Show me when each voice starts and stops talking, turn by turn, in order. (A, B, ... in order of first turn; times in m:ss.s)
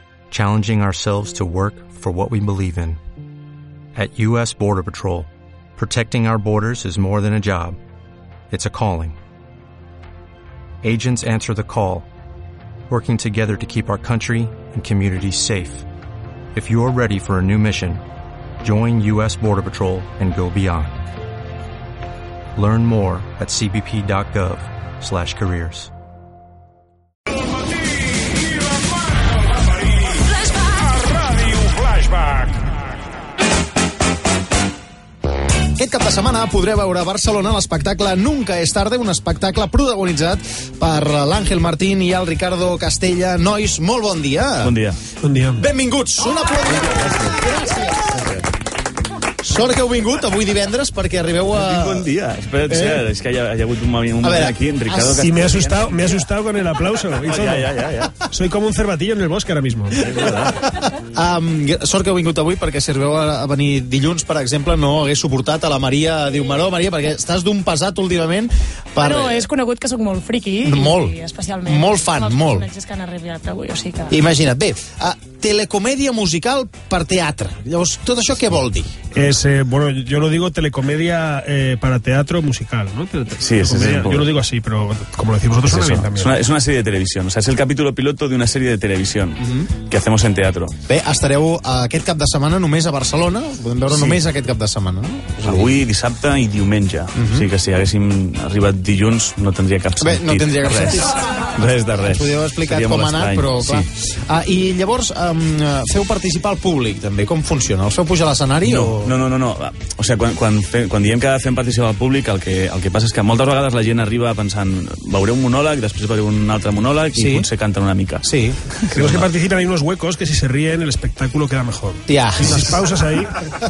0:00.3-0:03.0 A
0:03.9-0:07.8 A
0:08.5-0:09.2 A
0:10.8-0:12.1 A
0:12.9-0:15.9 A
0:16.5-0:18.0 A
0:18.6-0:21.0 A
0:22.6-0:25.9 A
0:30.1-0:31.5 B
0:35.8-0:44.8 C
0:44.6-0:45.0 D
0:45.2-0:45.7 E
0:45.6-0:48.3 C
0:46.9-0:47.3 D
0:48.1-0:48.4 D
0:49.4-0:52.1 C
0:51.5-0:56.2 D
0:52.7-0:53.1 C
0:54.2-0:55.6 C
0:55.0-0:57.7 E
0:57.3-0:58.2 D
0:58.3-1:00.1 E
1:00.0-1:00.7 D
1:00.4-1:09.5 C
1:09.0-1:14.3 B
1:10.6-1:12.7 C
1:14.1-1:18.9 C
1:19.1-1:26.4 E
1:23.4-1:24.3 D
1:25.6-1:30.7 D
1:29.4-1:29.7 C
1:30.9-1:35.8 C
1:33.9-1:34.2 D
1:35.4-1:43.9 D
1:37.2-1:37.5 C
1:40.0-1:41.3 C
1:42.0-1:49.2 C
1:48.6-1:59.3 D
1:57.1-1:57.5 C
1:58.2-1:58.6 C
1:58.9-2:03.5 E
2:02.1-2:02.8 C